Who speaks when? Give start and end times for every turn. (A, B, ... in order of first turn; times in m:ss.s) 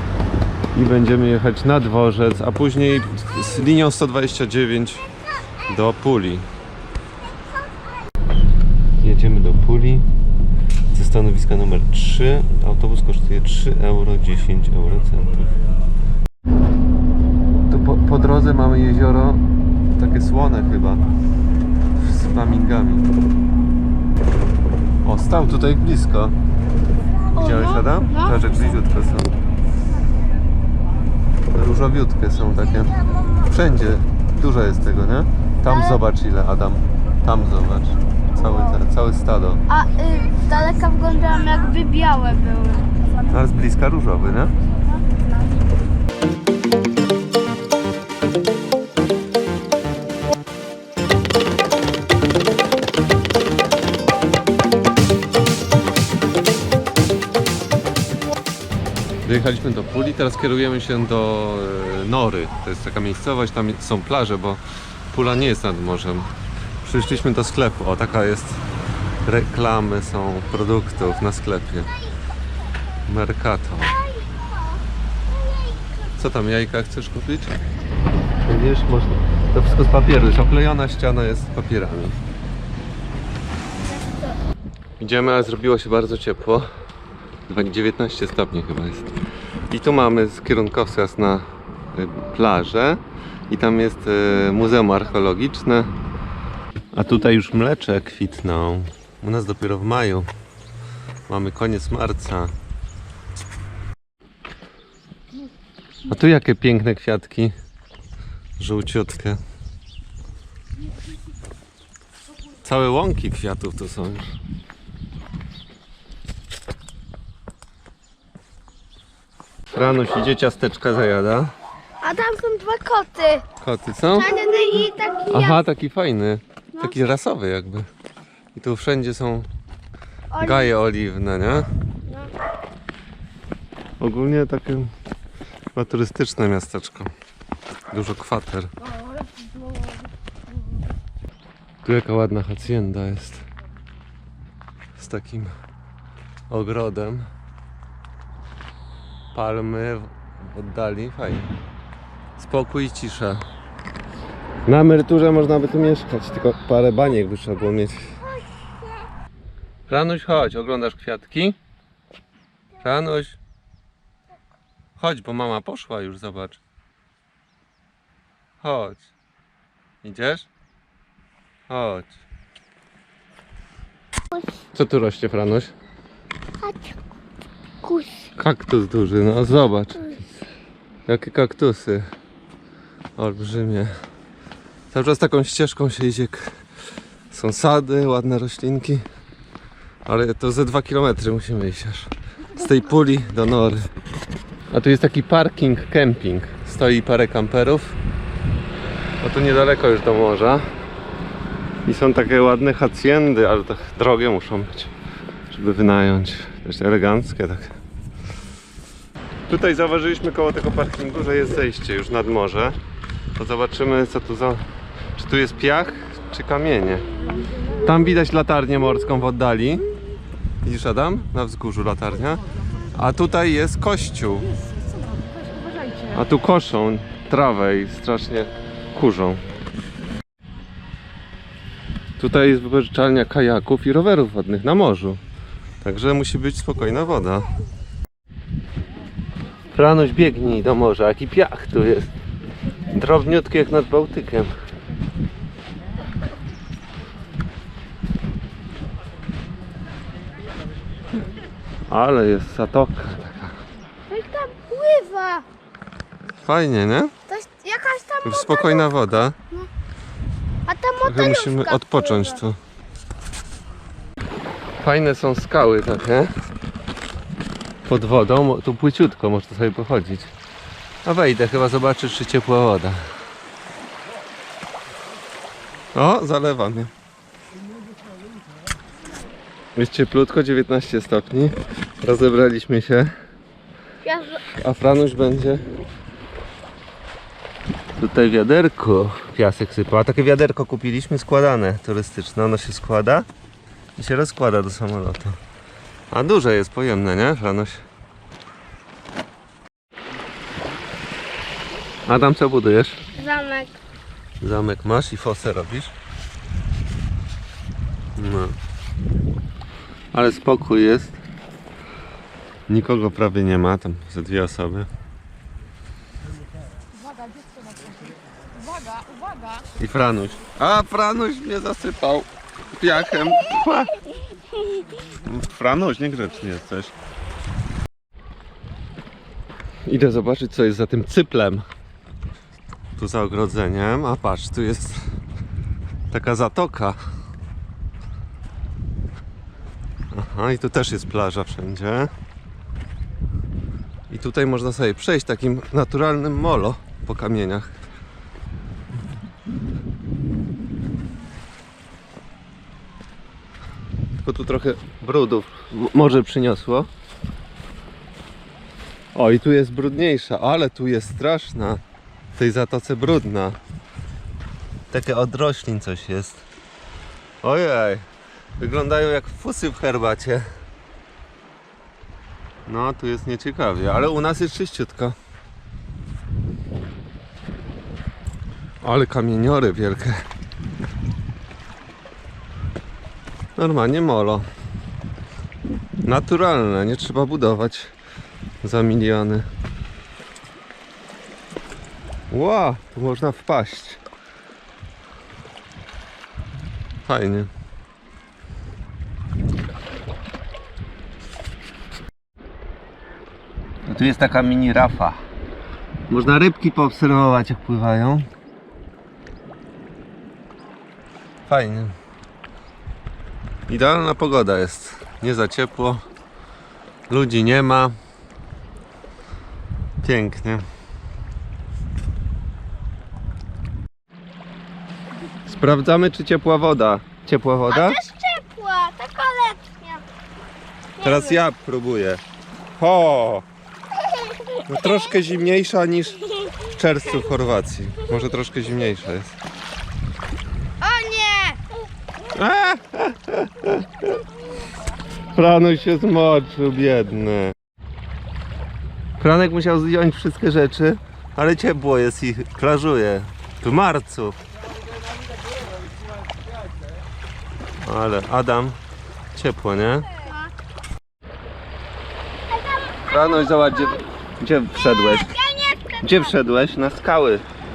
0:00.7-0:05.1 A
0:05.6-0:06.5 A
0:09.0-0:10.1 A
0:10.9-0:15.5 A
0:17.7-0:19.4 A
0:20.0-0:21.0 A
0:22.0-0:23.1 A
0:25.0-0:26.3 A
0:27.4-0:28.4 B
0:27.4-0:29.3 A
0:31.5-0:39.6 A
0:35.7-0:36.0 B
0:39.7-0:42.9 B
0:43.3-0:44.6 A
0:59.2-1:08.6 A
1:09.2-1:11.9 A
1:13.0-1:14.0 A
1:14.1-1:14.8 B
1:15.3-1:15.9 B
1:16.2-1:17.6 A
1:18.4-1:22.2 A
1:24.0-1:24.3 B
1:25.0-1:26.7 A
1:27.5-1:29.1 A
1:29.7-1:35.9 A
1:36.9-1:40.3 A
1:41.3-1:42.5 A
1:46.1-1:47.6 A
1:48.6-1:49.4 A
1:52.6-1:54.3 A
1:59.7-2:01.5 A
2:02.0-2:03.4 B
2:03.6-2:04.3 A
2:04.1-2:05.6 B
2:05.3-2:07.9 A
2:08.6-2:09.5 A
2:10.3-2:10.7 B
2:10.4-2:11.7 A
2:14.0-2:14.9 A
2:15.8-2:17.1 A
2:17.9-2:18.7 A
2:19.2-2:19.5 B
2:21.8-2:23.5 A
2:25.0-2:25.5 A
2:26.5-2:27.3 A
2:29.3-2:31.5 A
2:32.4-2:33.4 A
2:34.7-2:38.1 A
2:39.9-2:41.6 A
2:42.8-2:43.4 A
2:45.0-2:46.6 A
2:48.6-2:49.1 A
2:50.0-2:50.5 A
2:51.7-2:52.2 A
2:54.7-2:55.7 A
2:56.6-2:56.9 B
2:57.8-2:58.3 B
2:58.4-3:00.2 A
3:01.1-3:02.1 A
3:03.2-3:03.9 A
3:04.9-3:06.6 A
3:07.3-3:09.0 A
3:10.1-3:13.8 A
3:14.7-3:18.0 A
3:19.2-3:20.6 A
3:21.9-3:24.9 A
3:25.5-3:27.8 A
3:29.5-3:32.8 A
3:33.4-3:34.6 A
3:35.2-3:37.1 A
3:37.8-3:39.8 A
3:40.6-3:42.4 A
3:42.9-3:44.5 A
3:46.1-3:49.4 A
3:52.2-3:55.2 A
3:55.8-3:57.5 A
3:59.8-4:02.1 A
4:02.9-4:04.5 A
4:11.9-4:13.6 A
4:14.1-4:15.4 B
4:16.4-4:17.1 A
4:17.3-4:18.9 B
4:18.2-4:19.4 A
4:20.7-4:22.4 B
4:21.0-4:22.6 A
4:24.8-4:26.3 A
4:27.9-4:30.3 A
4:31.0-4:33.0 A
4:35.9-4:36.9 A
4:39.8-4:43.1 A
4:44.0-4:44.4 B
4:44.4-4:45.6 A
4:48.0-4:53.3 A
4:54.0-4:55.4 A
4:56.1-4:57.8 A
5:02.1-5:03.0 A
5:03.2-5:03.8 B
5:04.4-5:05.9 A
5:08.2-5:08.6 A
5:10.1-5:11.2 A
5:12.7-5:14.9 A
5:19.8-5:24.0 A
5:25.2-5:26.9 A
5:29.9-5:31.7 A
5:33.0-5:35.0 A
5:36.1-5:37.0 A
5:40.1-5:42.1 A
5:44.1-5:47.8 A
5:54.2-5:56.9 A
5:59.1-6:01.8 A
6:02.4-6:03.6 A
6:04.9-6:06.4 A
6:07.4-6:08.0 A
6:08.6-6:10.5 A
6:12.7-6:15.2 A
6:18.8-6:20.2 A
6:23.6-6:24.4 A
6:26.0-6:27.9 A
6:28.6-6:29.5 A
6:32.3-6:34.0 A
6:37.0-6:37.5 A
6:43.9-6:45.2 A
6:46.1-6:48.3 A
6:51.5-6:52.0 A
6:53.7-6:56.0 A
6:57.1-6:58.0 A
7:00.0-7:00.6 A
7:05.5-7:08.0 A
7:07.7-7:10.0 B
7:11.0-7:11.4 B
7:11.0-7:12.2 A
7:12.8-7:13.5 A
7:14.7-7:19.4 A
7:20.8-7:21.6 B
7:22.3-7:24.0 A
7:25.3-7:27.5 A
7:29.2-7:34.4 A
7:37.8-7:38.8 A
7:39.3-7:40.1 A
7:42.5-7:44.0 B
7:43.1-7:45.4 A
7:45.0-7:46.2 B
7:46.0-7:47.4 A